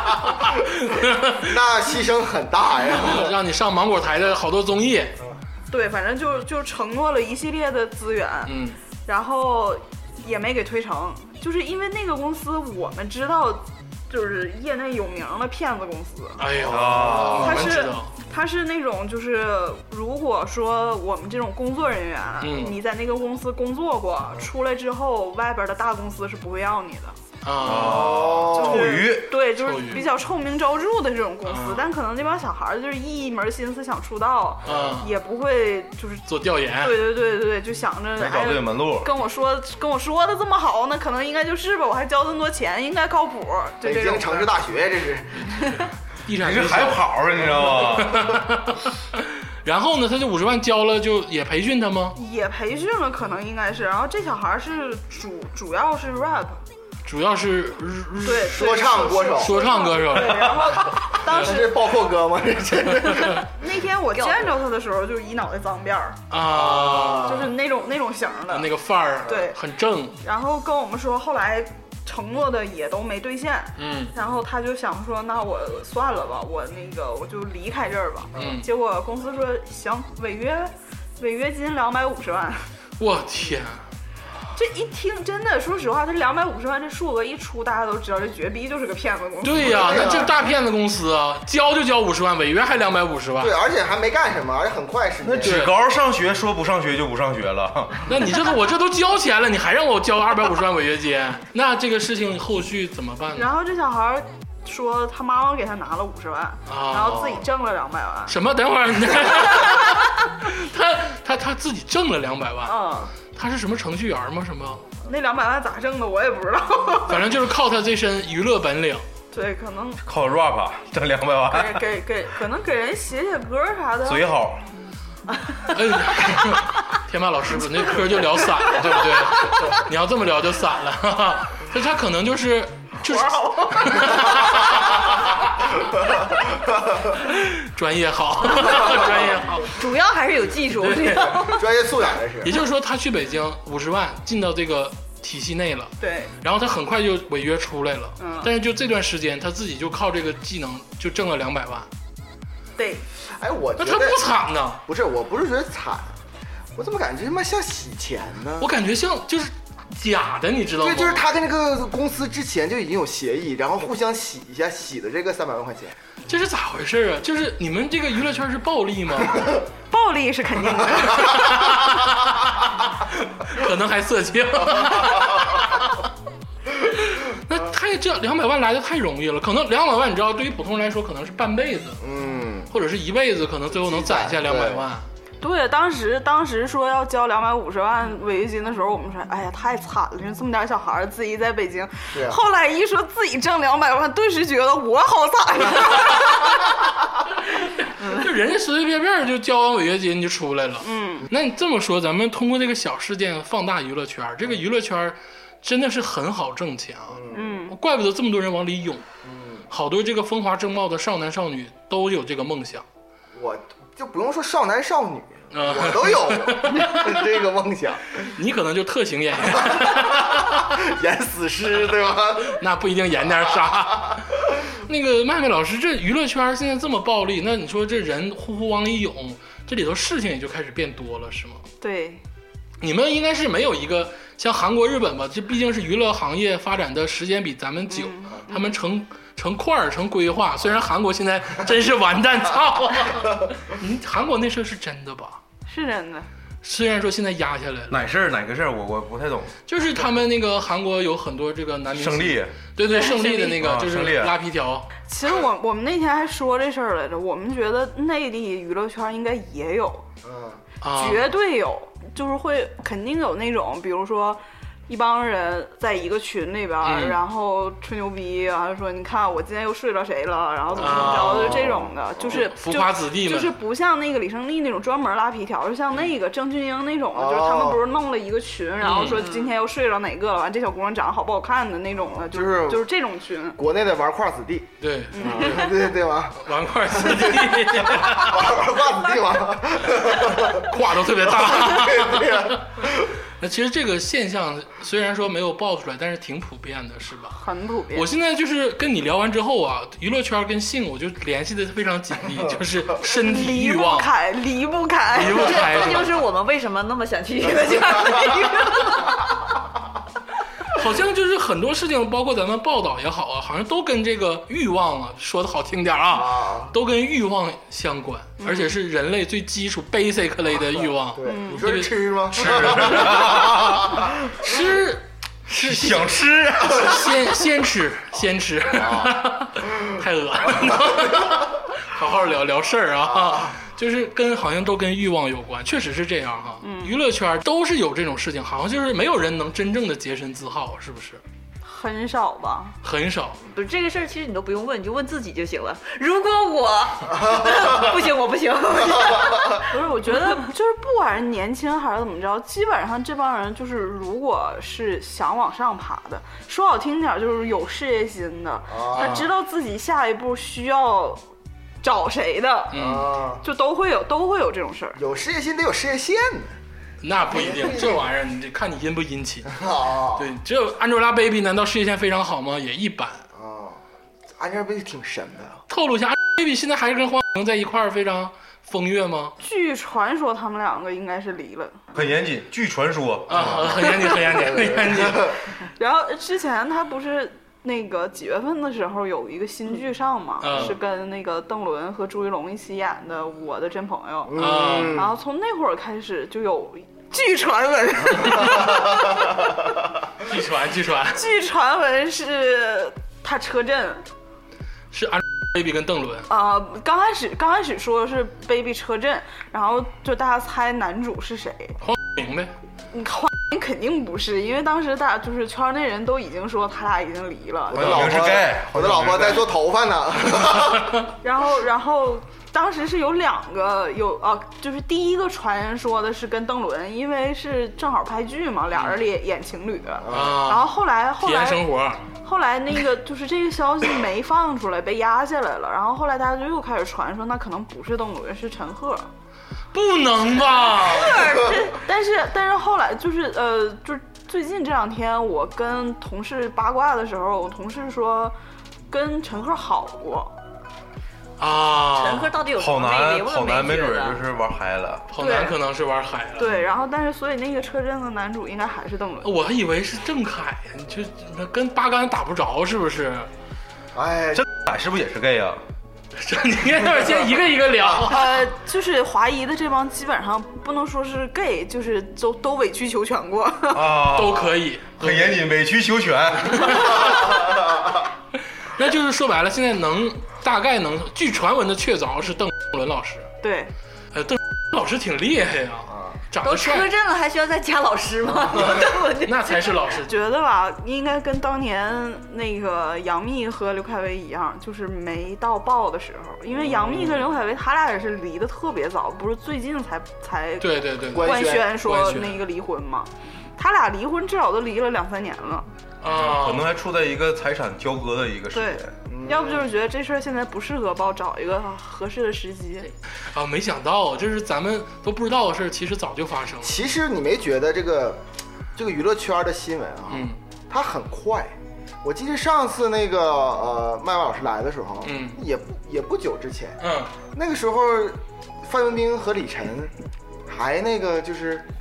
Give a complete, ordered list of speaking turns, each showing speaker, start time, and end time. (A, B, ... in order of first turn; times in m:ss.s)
0:00.4-0:01.5 A
0:01.3-0:03.3 B
0:02.9-0:05.1 A
0:05.7-0:08.5 C
0:08.4-0:08.8 A
0:09.0-0:16.5 C
0:16.4-0:18.1 A
0:16.7-0:17.7 D
0:17.3-0:27.2 C
0:22.4-0:22.7 A
0:27.4-0:28.2 A
0:27.6-0:29.4 D
0:27.6-0:29.0 B
0:28.5-0:44.5 C
0:29.5-0:30.1 A
0:31.4-0:31.9 A
0:34.6-0:35.1 A
0:34.7-0:35.0 D
0:36.3-0:37.0 A
0:38.2-0:39.1 D
0:43.8-0:45.5 B
0:46.2-0:47.1 A
0:46.4-0:48.4 D
0:47.8-0:52.2 A
0:52.2-0:56.6 C
0:57.0-1:01.5 A
0:58.2-1:02.0 C
0:58.5-0:59.7 B
1:01.2-1:03.4 B
1:03.5-1:06.2 C
1:04.1-1:04.6 E
1:06.3-1:07.5 A
1:06.5-1:07.4 B
1:07.2-1:08.7 C
1:08.5-1:10.2 A
1:09.2-1:09.6 C
1:10.2-1:22.7 C
1:13.8-1:14.1 A
1:18.3-1:18.7 A
1:18.4-1:18.6 B
1:23.0-1:23.8 A
1:24.5-1:30.2 C
1:29.4-1:33.5 A
1:29.6-1:30.3 B
1:33.4-1:35.6 B
1:35.2-1:38.1 D
1:35.4-1:35.7 A
1:38.1-1:43.5 A
1:43.3-1:48.4 C
1:46.7-1:47.4 A
1:48.3-1:52.8 A
1:52.6-1:53.1 C
1:53.3-1:54.8 A
1:55.0-1:57.2 C
1:57.1-1:59.0 A
1:59.3-2:00.0 C
2:00.0-2:01.8 D
2:01.5-2:04.3 C
2:04.0-2:04.6 D
2:05.7-2:15.6 A
2:17.1-2:19.7 A
2:19.6-2:21.6 E
2:20.8-2:21.6 A
2:21.4-2:22.6 B
2:22.4-2:31.9 A
2:26.0-2:26.3 C
2:28.2-2:28.5 C
2:32.8-2:33.0 C
2:33.3-2:34.2 B
2:33.8-2:34.8 A
2:34.9-2:36.2 B
2:36.7-2:38.7 B
2:38.6-2:41.2 A
2:40.8-2:45.9 B
2:46.3-2:49.6 A
2:49.9-2:51.4 C
2:50.9-2:52.1 A
2:53.2-2:56.0 A
2:56.8-3:02.0 A
3:02.0-3:02.7 B
3:02.7-3:05.1 A
3:03.7-3:04.8 B
3:05.4-3:16.7 C
3:12.1-3:12.4 B
3:18.0-3:29.0 A
3:20.8-3:21.3 C
3:27.1-3:27.6 B
3:27.3-3:27.8 C
3:29.2-3:29.7 B
3:29.7-3:32.8 A
3:33.3-3:38.1 B
3:35.5-3:37.2 A
3:38.2-3:40.7 A
3:39.7-3:42.6 B
3:42.4-3:51.6 A
3:51.8-3:52.2 C
3:52.8-4:05.4 A
3:57.9-3:58.7 C
4:05.7-4:06.3 C
4:06.6-4:08.0 A
4:07.9-4:09.6 D
4:09.7-4:14.9 A
4:11.9-4:12.6 D
4:13.5-4:14.3 D
4:15.1-4:20.0 C
4:20.2-4:20.6 B
4:20.8-4:21.3 A
4:20.9-4:43.6 C
4:26.8-4:27.2 A
4:30.7-4:32.4 B
4:30.8-4:31.7 A
4:32.3-4:33.6 A
4:37.1-4:37.8 B
4:38.8-4:39.2 A
4:39.1-4:39.5 E
4:42.1-4:42.9 B
4:43.6-4:50.7 B
4:44.8-4:45.6 A
4:45.1-4:45.7 C
4:46.4-4:48.6 A
4:50.3-4:57.4 A
4:51.3-4:53.1 B
4:57.3-4:58.1 C
4:57.9-5:04.1 A
5:03.0-5:05.6 C
5:05.1-5:06.2 A
5:05.2-5:09.3 E
5:10.7-5:41.2 A
5:16.1-5:16.7 B
5:18.4-5:18.7 C
5:20.7-5:24.1 B
5:21.2-5:21.6 C
5:22.4-5:23.8 D
5:25.5-5:27.1 D
5:28.7-5:29.1 B
5:36.6-5:36.9 C
5:41.6-5:42.8 C
5:42.8-5:43.4 A
5:43.5-5:49.7 E
5:49.1-5:49.5 B
5:49.7-6:01.2 C
5:58.7-5:59.2 B
5:59.0-5:59.3 A
6:01.8-6:02.7 C
6:02.7-6:03.1 A
6:02.7-6:03.4 B
6:03.4-6:05.0 C
6:05.0-6:06.6 B
6:07.0-6:09.6 A
6:07.3-6:08.0 B
6:09.5-6:10.3 B
6:10.2-6:13.2 A
6:13.3-6:15.6 B
6:15.7-6:19.3 A
6:19.4-6:21.8 C
6:21.9-6:24.2 D
6:23.3-6:25.4 A
6:24.5-6:25.2 B
6:25.8-6:34.4 C
6:30.4-6:30.8 A
6:34.3-6:35.1 B
6:34.4-6:35.0 A
6:34.9-6:39.4 C
6:40.2-6:41.2 A
6:41.1-6:44.0 C
6:44.9-6:46.3 A
6:46.3-6:51.8 C
6:51.8-6:52.5 A
6:52.9-6:57.8 C
6:57.7-7:00.9 B
6:57.7-6:59.5 D
7:01.2-7:11.6 C
7:10.0-7:10.4 B
7:10.1-7:12.1 A
7:12.2-7:19.1 C
7:19.7-7:21.4 A
7:20.7-7:21.8 E
7:21.7-7:28.3 C
7:28.9-7:30.3 C
7:31.4-7:32.4 A
7:31.9-7:34.2 E
7:32.6-7:35.1 D
7:35.1-7:36.5 A
7:35.2-7:35.6 C
7:36.4-7:39.3 C
7:39.2-7:43.3 A
7:43.9-7:44.4 B
7:44.3-7:45.6 D
7:46.2-7:48.4 A
7:48.0-7:53.9 C
7:53.7-7:57.3 D
7:54.1-7:55.4 A
7:56.5-7:57.4 A
7:58.8-8:03.3 A
8:03.4-8:03.7 C
8:04.1-8:06.9 A
8:05.9-8:06.1 B
8:06.4-8:09.8 E
8:08.6-8:10.1 A
8:10.0-8:25.7 C
8:16.6-8:17.2 B
8:20.6-8:22.4 A
8:21.1-8:21.8 B
8:26.0-8:26.7 A
8:26.1-8:28.9 D
8:28.5-8:32.9 C
8:29.1-8:29.7 B
8:33.3-8:36.8 A
8:36.6-8:38.2 B
8:38.7-8:46.8 B
8:40.1-8:40.4 A
8:45.0-8:45.4 A
8:46.8-8:47.1 A
8:47.3-8:49.9 B
8:50.5-8:51.7 B